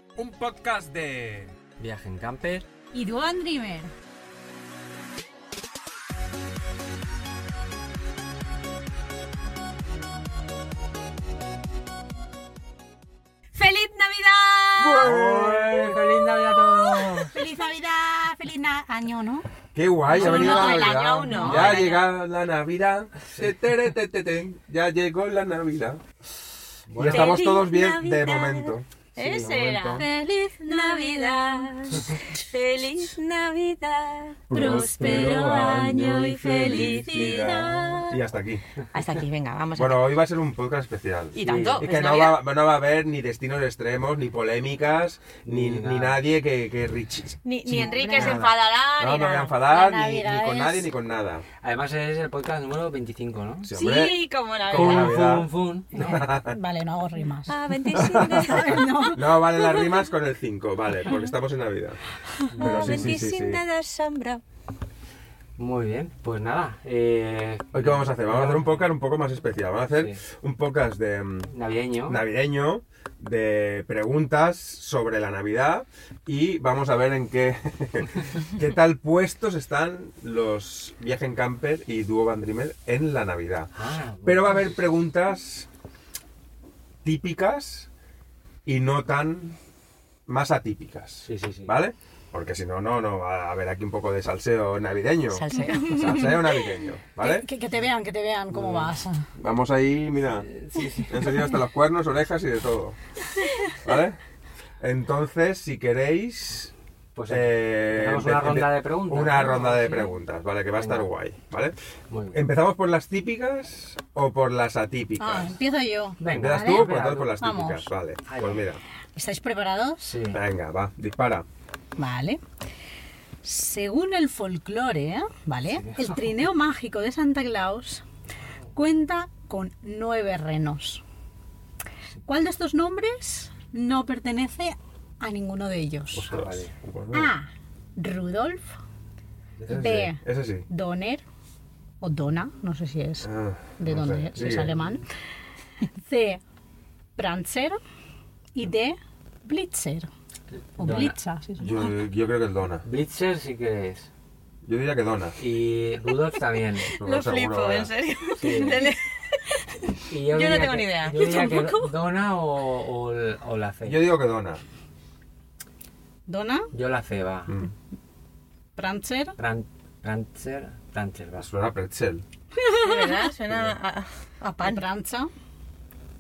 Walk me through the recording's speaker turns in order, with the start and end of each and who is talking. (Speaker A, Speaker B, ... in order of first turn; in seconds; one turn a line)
Speaker A: 0.2-1.6
Speaker B: 1.8-2.6
Speaker C: 2.9-3.9
Speaker D: 13.5-17.3
Speaker A: 14.8-16.1
Speaker B: 15.1-17.3
Speaker C: 17.3-19.5
Speaker A: 19.8-26.0
Speaker C: 20.1-21.8
Speaker D: 20.1-22.0
Speaker B: 26.9-27.4
Speaker A: 26.9-30.1
Speaker D: 27.0-38.2
Speaker B: 29.2-29.6
Speaker C: 30.0-31.4
Speaker A: 34.5-38.6
Speaker B: 34.5-35.5
Speaker D: 38.9-40.0
Speaker A: 39.8-51.5
Speaker D: 41.4-42.4
Speaker B: 41.4-41.9
Speaker B: 45.4-46.2
Speaker D: 47.5-49.5
Speaker C: 47.9-48.4
Speaker C: 49.7-50.9
Speaker B: 51.6-53.7
Speaker A: 53.6-56.6
Speaker D: 53.7-55.2
Speaker B: 54.7-56.3
Speaker C: 56.4-57.5
Speaker D: 57.5-58.9
Speaker A: 58.0-62.0
Speaker C: 58.1-59.3
Speaker B: 62.5-63.2
Speaker A: 62.5-63.6
Speaker D: 62.6-64.4
Speaker B: 65.6-68.9
Speaker A: 67.7-71.5
Speaker B: 71.5-72.2
Speaker A: 72.1-83.7
Speaker B: 83.8-84.8
Speaker A: 84.2-85.7
Speaker A: 87.0-87.9
Speaker A: 88.7-89.6
Speaker A: 90.3-97.5
Speaker B: 91.2-91.8
Speaker D: 95.3-96.4
Speaker C: 95.6-96.4
Speaker C: 97.2-99.3
Speaker B: 98.5-98.9
Speaker A: 99.4-100.5
Speaker B: 100.4-101.5
Speaker A: 101.1-103.0
Speaker A: 103.8-104.2
Speaker A: 104.8-106.7
Speaker B: 107.2-110.1
Speaker A: 107.3-111.8
Speaker B: 110.8-111.1
Speaker B: 112.1-112.4
Speaker A: 112.3-115.5
Speaker C: 115.2-117.9
Speaker B: 116.2-117.4
Speaker A: 116.3-118.8
Speaker B: 118.3-118.6
Speaker C: 119.2-120.2
Speaker B: 120.1-120.4
Speaker A: 120.3-121.5
Speaker C: 122.0-122.4
Speaker C: 123.4-128.0
Speaker B: 125.7-126.3
Speaker C: 128.8-131.0
Speaker C: 132.3-136.3
Speaker A: 136.1-137.3
Speaker B: 136.3-136.7
Speaker C: 137.1-138.8
Speaker A: 139.6-140.7
Speaker C: 139.7-141.2
Speaker C: 142.0-145.1
Speaker A: 143.2-144.8
Speaker C: 146.0-146.4
Speaker C: 147.2-147.8
Speaker C: 148.6-150.1
Speaker B: 150.8-151.2
Speaker C: 150.8-151.9
Speaker A: 151.6-152.8
Speaker B: 152.8-154.1
Speaker A: 154.7-155.4
Speaker B: 155.4-156.9
Speaker D: 156.9-161.9
Speaker A: 156.9-157.9
Speaker B: 158.4-158.8
Speaker B: 160.1-164.1
Speaker A: 163.8-164.6
Speaker C: 166.3-166.7
Speaker B: 166.7-167.6
Speaker C: 168.8-169.4
Speaker B: 169.4-171.5
Speaker A: 171.4-172.2
Speaker C: 172.6-173.3
Speaker D: 172.8-174.8
Speaker C: 174.6-175.3